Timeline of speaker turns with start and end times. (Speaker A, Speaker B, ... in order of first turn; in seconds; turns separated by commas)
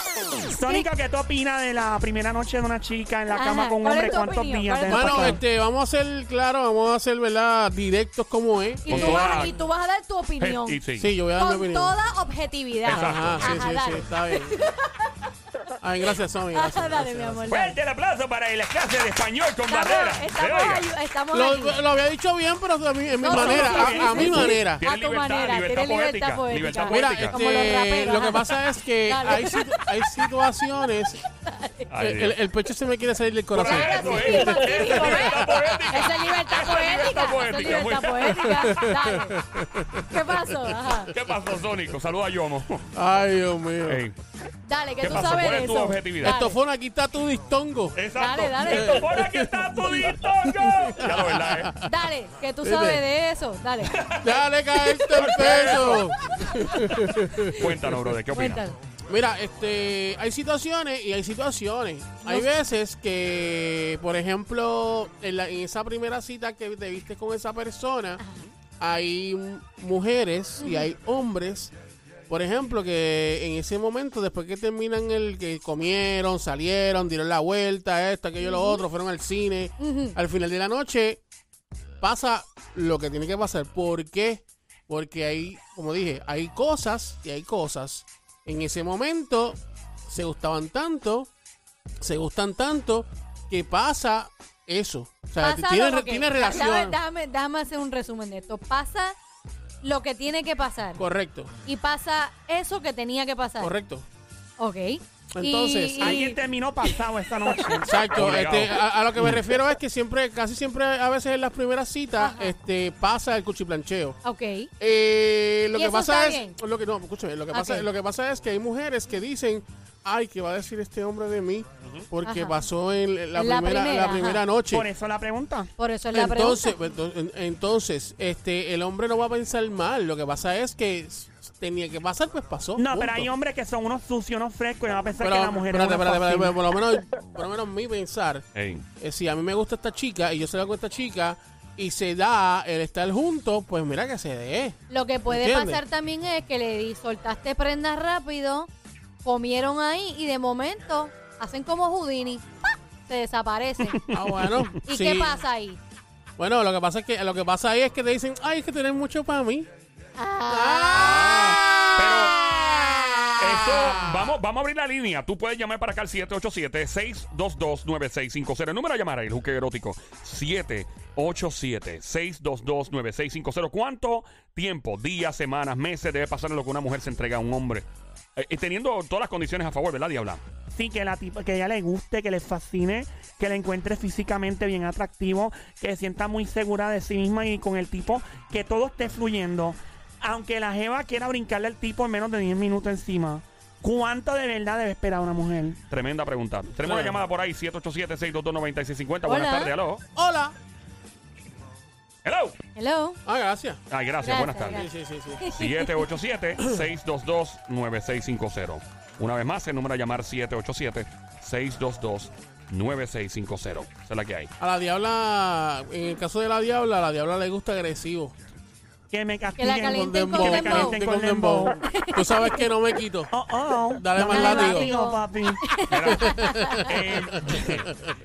Speaker A: 0.4-5.4, Speaker B: 3.3-5.4, Speaker C: 4.9-9.5, Speaker B: 8.8-15.1, Speaker D: 8.9-9.5, Speaker D: 10.4-11.1, Speaker C: 11.0-11.9, Speaker D: 12.8-13.6, Speaker C: 12.8-14.6, Speaker B: 15.7-17.8, Speaker C: 15.8-17.4, Speaker D: 17.5-20.9, Speaker B: 19.6-21.8, Speaker C: 21.3-24.9, Speaker B: 23.2-30.2, Speaker D: 23.3-27.4, Speaker C: 26.9-31.2, Speaker B: 31.4-31.9, Speaker D: 31.9-32.4, Speaker C: 32.0-35.3, Speaker D: 33.5-38.7, Speaker B: 33.6-39.4, Speaker C: 38.5-41.3, Speaker B: 40.1-41.1, Speaker D: 41.1-42.9, Speaker C: 42.9-44.0, Speaker D: 43.9-44.1, Speaker B: 44.6-46.6, Speaker D: 45.0-46.4, Speaker C: 46.2-48.0, Speaker D: 47.9-51.8, Speaker B: 48.1-49.1, Speaker C: 48.7-51.9, Speaker B: 51.8-54.0, Speaker C: 52.6-53.0, Speaker D: 53.8-54.4, Speaker C: 54.2-57.5, Speaker D: 55.0-58.7, Speaker B: 58.3-58.8, Speaker C: 59.0-68.2, Speaker B: 62.2-62.5, Speaker C: 68.8-71.7, Speaker B: 70.6-70.9, Speaker C: 72.3-81.2, Speaker B: 78.4-78.8, Speaker B: 79.8-80.2, Speaker C: 82.0-91.3, Speaker C: 92.0-97.0, Speaker B: 95.4-99.2, Speaker B: 99.8-101.0, Speaker C: 101.0-101.5, Speaker B: 101.6-103.7, Speaker C: 103.6-104.0, Speaker B: 104.6-106.4, Speaker C: 105.3-106.2, Speaker A: 106.0-108.0, Speaker C: 107.8-114.2, Speaker D: 108.1-109.4, Speaker B: 112.2-112.5, Speaker B: 114.2-114.7, Speaker C: 114.8-124.9, Speaker B: 115.7-116.5, Speaker B: 117.5-117.9, Speaker D: 121.8-122.1, Speaker B: 122.2-122.6, Speaker B: 123.3-124.4, Speaker A: 124.7-125.7, Speaker B: 125.8-126.7, Speaker C: 126.1-133.3, Speaker A: 132.8-136.5, Speaker C: 135.2-138.4, Speaker D: 138.5-138.8, Speaker C: 139.0-145.8, Speaker B: 144.9-148.7, Speaker B: 149.2-152.5, Speaker B: 153.1-154.0, Speaker C: 154.1-155.4, Speaker D: 154.4-154.7, Speaker B: 154.8-155.8, Speaker C: 156.4-159.7, Speaker B: 160.2-161.5, Speaker C: 160.4-164.3, Speaker D: 160.9-162.4, Speaker D: 163.3-180.4, Speaker A: 180.7-195.8, Speaker D: 195.9-200.0, Speaker B: 199.2-199.7, Speaker C: 200.1-200.5, Speaker D: 202.2-202.6, Speaker B: 202.7-203.2, Speaker C: 203.2-203.8, Speaker D: 203.9-204.8, Speaker B: 204.2-206.2, Speaker C: 204.7-205.4, Speaker D: 205.6-214.5, Speaker C: 214.6-218.3, Speaker A: 219.1-221.8, Speaker B: 219.6-221.0, Speaker C: 219.8-223.3, Speaker B: 221.8-222.7, Speaker A: 223.3-225.6, Speaker C: 223.9-224.9, Speaker B: 224.2-226.9, Speaker D: 225.9-227.9, Speaker C: 226.0-228.1